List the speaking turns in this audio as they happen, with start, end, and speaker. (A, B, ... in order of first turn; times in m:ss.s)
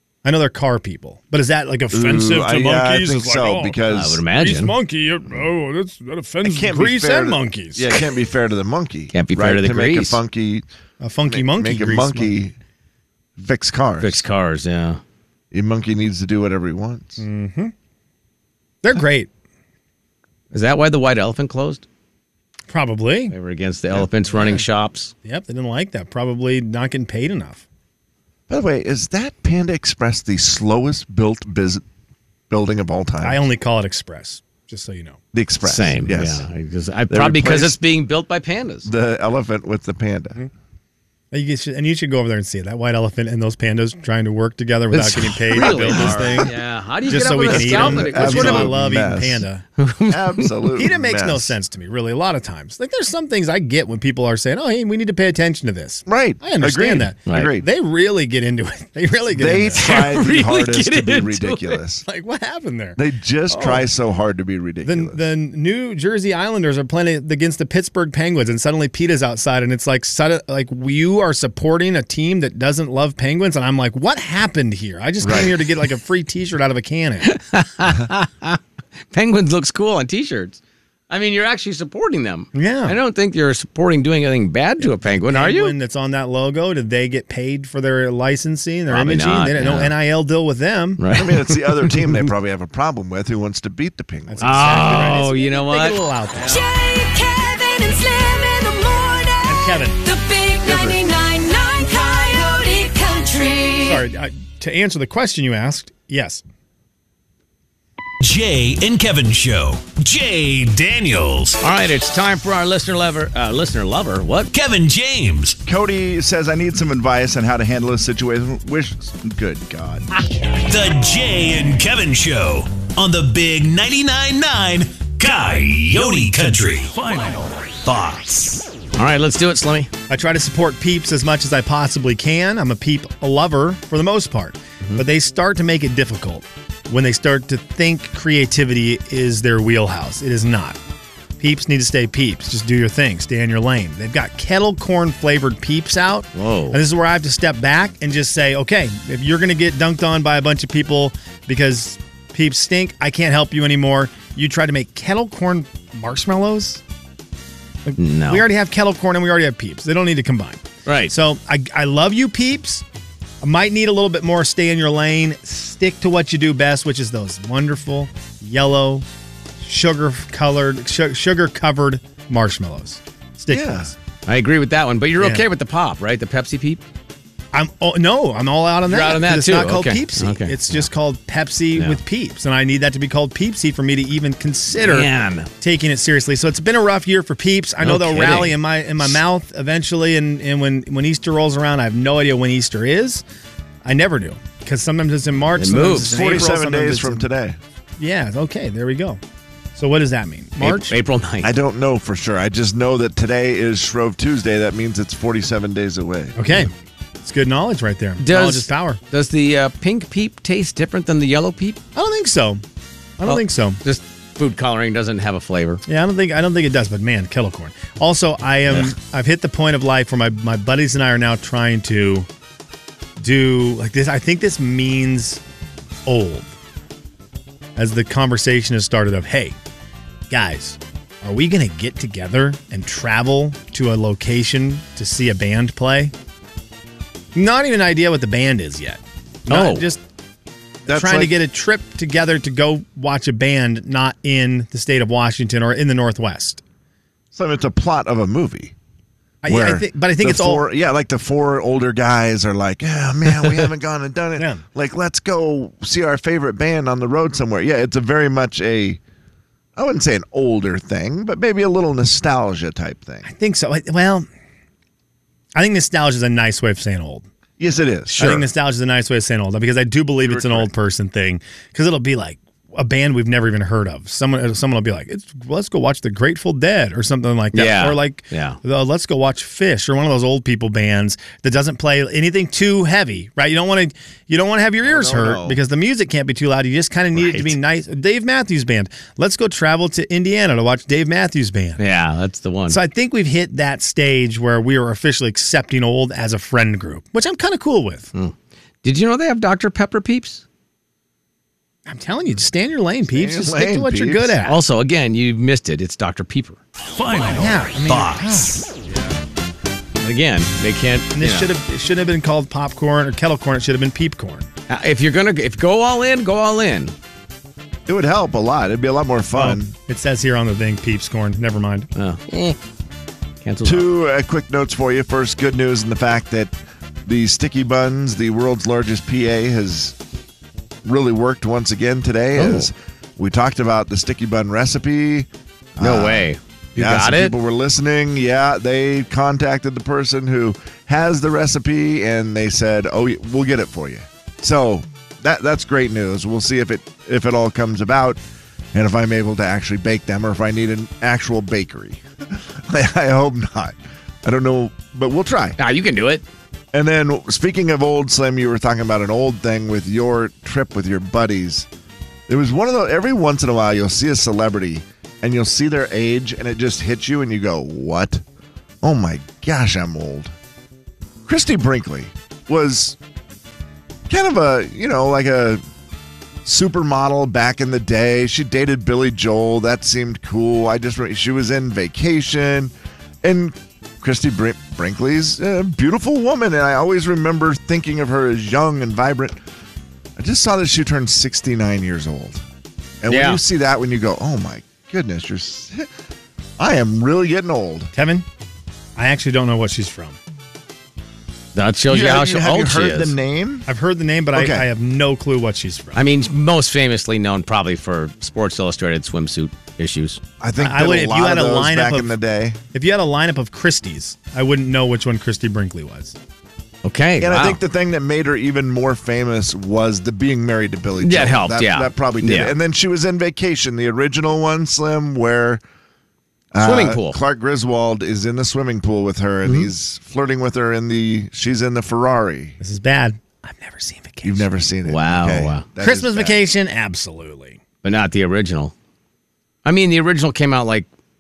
0:00.2-0:03.8 A
0:01.9-0:04.2 B
0:03.9-0:04.7 C
0:04.3-0:07.9 A
0:06.4-0:10.6 B
0:09.1-0:10.2 C
0:11.0-0:12.3 A
0:11.3-0:12.5 B
0:13.4-0:14.2 B
0:14.0-0:15.0 C
0:15.5-0:17.2 B
0:17.2-0:17.7 A
0:18.8-0:19.3 A
0:20.5-0:21.8 C
0:22.7-0:23.3 A
0:23.3-0:25.1 C
0:23.9-0:24.6 B
0:25.2-0:27.6 A
0:28.5-0:31.8 B
0:32.5-0:33.4 B
0:33.2-0:35.2 A
0:35.3-0:36.4 B
0:35.6-0:38.9 C
0:37.1-0:37.8 B
0:38.8-0:40.4 B
0:41.3-0:46.5 A
0:44.9-0:48.7 C
0:45.6-0:46.5 B
0:47.1-0:49.6 A
0:47.4-0:49.4 B
0:49.8-0:50.6 C
0:50.1-0:51.6 B
0:50.7-0:59.9 A
0:56.1-0:57.7 B
0:59.3-1:02.0 B
0:59.8-1:01.8 C
1:02.0-1:03.9 A
1:03.0-1:05.2 B
1:04.8-1:17.3 A
1:15.2-1:15.5 B
1:17.2-1:18.6 C
1:19.1-1:25.7 C
1:22.5-1:23.0 A
1:24.8-1:31.0 A
1:28.9-1:29.9 C
1:31.0-1:32.3 C
1:31.1-1:35.2 B
1:34.3-1:36.6 A
1:34.4-1:36.0 C
1:36.4-1:44.0 D
1:39.4-1:40.0 A
1:40.6-1:41.0 B
1:43.8-1:46.4 A
1:48.2-1:51.6 E
1:51.6-1:54.5 C
1:54.5-1:55.6 E
1:55.6-2:00.1 B
2:00.6-2:08.6 E
2:09.0-2:09.9 C
2:10.1-2:20.8 A
2:21.4-2:36.8 A
2:26.3-2:26.8 C
2:37.8-2:42.8 A
2:38.0-2:38.4 C
2:40.8-2:41.1 C
2:43.4-2:49.0 A
2:49.6-2:54.0 A
2:53.5-2:53.9 B
2:54.2-2:56.8 C
2:55.2-2:55.4 A
2:57.5-3:05.1 A
2:58.9-3:00.8 C
3:04.8-3:05.5 C
3:05.6-3:13.2 A
3:07.8-3:09.2 C
3:13.8-3:17.3 A
3:15.6-3:16.3 C
3:16.1-3:17.6 B
3:18.0-3:19.2 A
3:19.8-3:20.9 A
3:20.6-3:21.5 C
3:21.4-3:26.4 B
3:26.4-3:26.7 A
3:27.2-3:29.0 A
3:28.2-3:31.8 C
3:31.9-3:32.6 A
3:33.2-3:33.8 A
3:33.2-3:35.8 C
3:35.9-3:42.3 A
3:43.2-3:45.4 A
3:46.0-3:46.5 A
3:47.8-3:49.6 A
3:50.3-3:56.1 A
3:57.3-4:00.0 A
3:59.5-3:59.8 C
4:00.9-4:01.3 B
4:00.9-4:06.6 A
4:07.3-4:08.7 B
4:09.4-4:10.6 A
4:09.4-4:19.0 B
4:14.4-4:14.6 A
4:19.8-4:23.2 B
4:23.2-4:24.2 A
4:25.5-4:27.3 A
4:27.6-4:28.2 B
4:28.1-4:28.5 C
4:28.2-4:51.8 A
4:30.2-4:30.7 B
4:37.5-4:38.6 C
4:44.8-4:45.6 B
4:47.2-4:47.5 C
4:51.8-4:52.8 C
4:52.7-4:58.1 A
4:58.1-5:00.4 C
5:01.8-5:04.6 A
5:03.1-5:04.4 B
5:04.4-5:06.6 C
5:06.8-5:08.5 E
5:07.3-5:08.6 A
5:08.8-5:09.2 B
5:10.0-5:11.5 C
5:11.1-5:14.5 A
5:14.7-5:16.9 C
5:17.9-5:19.7 B
5:19.3-5:21.9 A
5:22.0-5:22.6 C
5:23.4-5:23.8 C
5:23.6-5:26.5 B
5:27.0-5:30.0 B
5:30.8-5:48.2 B
5:32.4-5:32.7 C
5:35.8-5:37.3 C
5:48.7-5:55.6 B
5:55.6-5:56.2 C
5:56.7-6:01.7 B
6:02.3-6:08.2 B
6:08.8-6:10.3 B
6:11.2-6:13.0 B
6:14.1-6:15.6 B
6:16.4-6:29.4 B
6:30.2-6:32.4 B
6:33.0-6:35.9 B
6:33.1-6:33.4 C
6:36.6-6:37.9 B
6:37.9-6:38.2 A
6:39.0-6:40.2 A
6:41.5-6:43.1 C
6:41.9-6:43.7 B
6:43.7-6:46.0 A
6:44.3-6:44.6 B
6:45.9-6:50.2 C
6:50.4-6:52.6 B
6:50.6-6:52.2 A
6:52.7-6:56.2 A
6:56.8-6:57.6 C
6:57.2-7:05.6 B
7:01.0-7:02.5 C
7:06.5-7:12.6 B
7:06.6-7:07.2 C
7:09.4-7:09.7 C
7:12.6-7:14.5 A
7:14.2-7:16.4 B
7:14.9-7:15.6 C
7:15.8-7:17.6 A
7:17.8-7:18.7 C
7:19.6-7:20.9 C